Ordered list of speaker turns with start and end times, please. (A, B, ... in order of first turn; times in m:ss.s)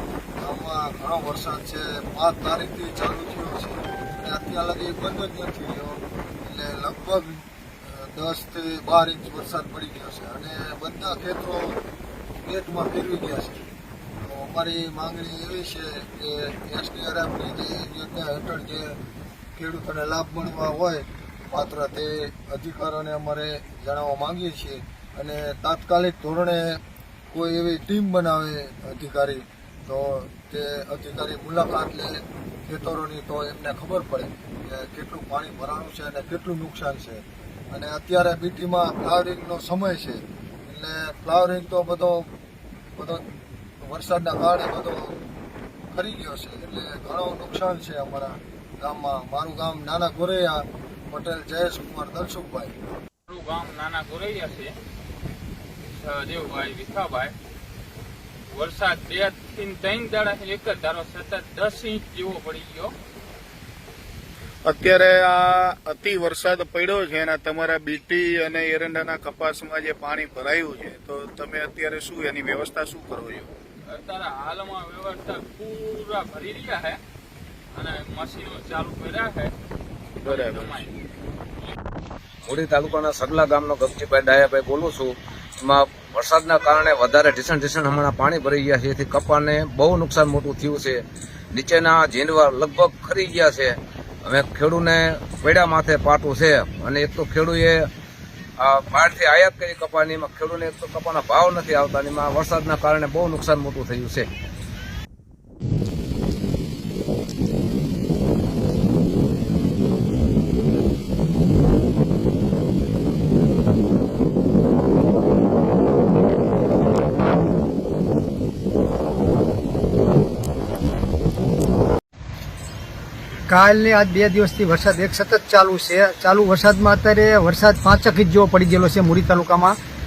0:00.4-0:11.8 A
0:12.4-0:13.6 A
0:14.2-0:19.0 A
0:19.6-0:26.8 A
0:27.3-0:42.3 A
0:43.0-0:43.2 A
0:43.9-0:45.2 A
0:45.9-0:52.7 A
0:53.3-0:54.7 B
0:55.9-0:57.3 B
0:58.5-1:02.9 B
1:04.6-1:13.5 C
1:13.9-1:17.0 B
1:17.7-1:19.5 B
1:20.2-1:20.9 B
1:20.2-1:20.7 C
1:22.4-1:37.9 D
1:38.6-1:44.3 D
2:03.5-2:09.7 E